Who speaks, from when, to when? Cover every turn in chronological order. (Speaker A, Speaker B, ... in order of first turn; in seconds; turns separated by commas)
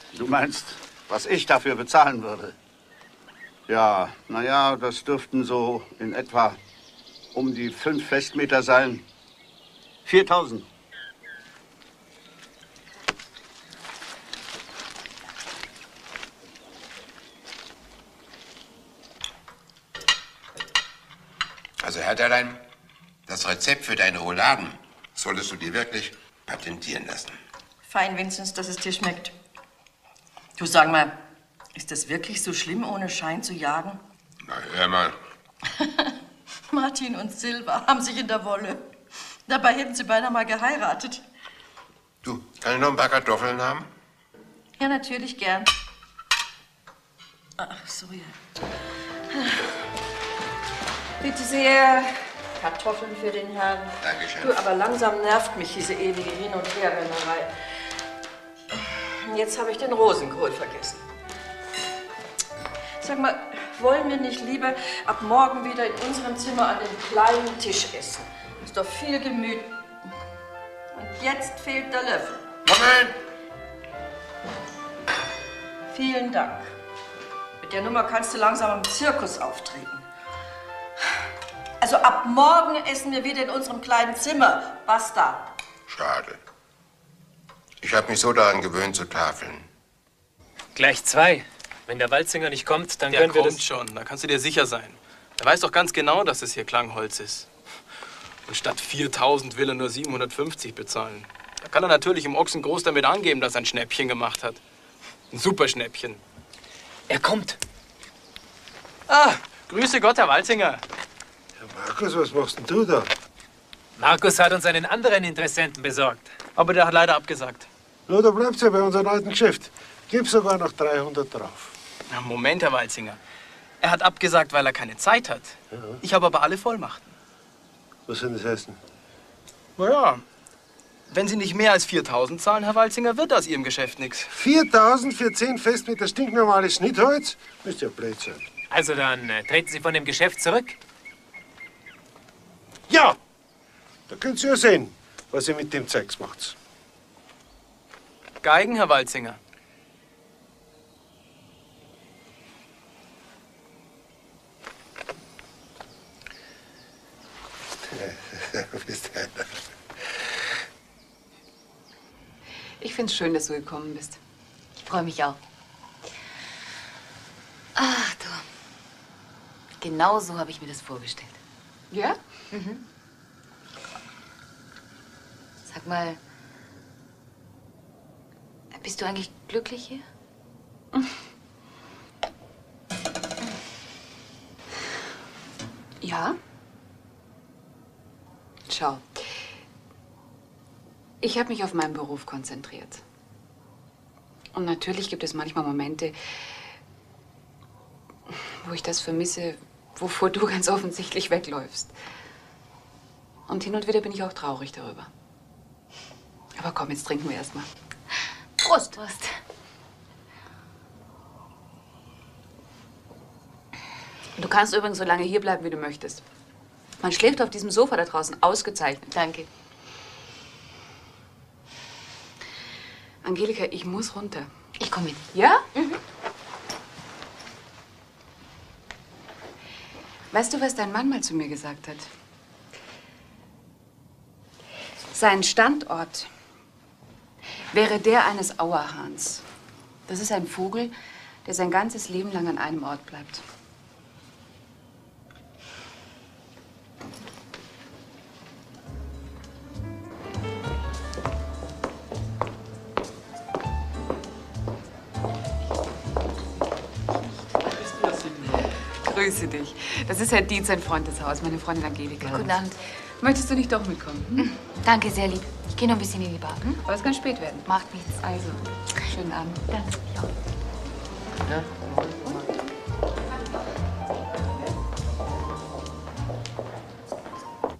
Speaker A: 0.1-2.5, Speaker A: 3.7-6.6, Speaker A: 7.3-9.0, Speaker A: 10.0-10.7, Speaker B: 21.8-22.6, Speaker B: 23.3-27.4, Speaker C: 27.9-29.3, Speaker C: 30.6-31.2, Speaker C: 31.7-34.0, Speaker B: 34.4-35.1, Speaker C: 35.8-36.1, Speaker C: 36.7-38.9, Speaker C: 39.5-41.2, Speaker B: 42.2-43.9, Speaker C: 44.8-45.7, Speaker C: 47.6-48.4, Speaker C: 49.3-49.6, Speaker C: 51.2-57.5, Speaker B: 54.0-54.5, Speaker C: 59.2-61.0, Speaker C: 63.0-69.8, Speaker C: 70.9-72.5, Speaker B: 72.7-73.1, Speaker C: 75.9-76.7, Speaker C: 77.6-80.0, Speaker C: 81.8-85.5, Speaker B: 85.9-86.4, Speaker B: 87.8-89.7, Speaker D: 90.7-93.6, Speaker E: 93.1-97.5, Speaker E: 98.5-104.6, Speaker E: 105.3-106.2, Speaker D: 107.1-107.6, Speaker E: 109.1-110.8, Speaker F: 111.6-113.1, Speaker D: 114.0-116.3, Speaker E: 116.5-117.7, Speaker F: 118.1-121.7, Speaker E: 122.1-123.2, Speaker E: 123.8-127.1, Speaker F: 125.7-126.0, Speaker F: 128.1-128.8, Speaker E: 129.8-130.2, Speaker E: 131.1-134.3, Speaker F: 134.3-138.4, Speaker D: 138.7-140.8, Speaker F: 142.9-143.2, Speaker F: 144.1-146.5, Speaker E: 148.4-149.4, Speaker F: 158.7-159.2, Speaker G: 162.8-164.2, Speaker H: 164.8-165.4, Speaker H: 167.8-168.4, Speaker H: 169.8-171.4, Speaker G: 171.9-172.2, Speaker H: 172.5-172.8, Speaker H: 175.7-176.2, Speaker H: 178.7-180.0, Speaker G: 186.0-186.3, Speaker G: 188.7-189.5, Speaker G: 191.2-193.0, Speaker G: 194.5-196.6, Speaker G: 198.6-201.9, Speaker G: 203.5-205.1, Speaker G: 206.6-207.7, Speaker H: 208.6-209.4, Speaker G: 214.4-216.2, Speaker G: 217.0-219.1, Speaker H: 219.1-219.5, Speaker G: 223.2-224.5, Speaker H: 224.8-226.0, Speaker G: 225.3-225.7, Speaker G: 230.3-232.1, Speaker G: 235.1-236.3, Speaker G: 237.7-239.4, Speaker G: 240.1-240.9, Speaker G: 241.4-243.4, Speaker G: 259.0-264.5, Speaker H: 262.2-262.8, Speaker H: 264.4-266.8, Speaker G: 266.8-267.7, Speaker H: 267.6-268.6, Speaker G: 268.2-269.6, Speaker H: 269.7-270.2, Speaker G: 271.8-272.3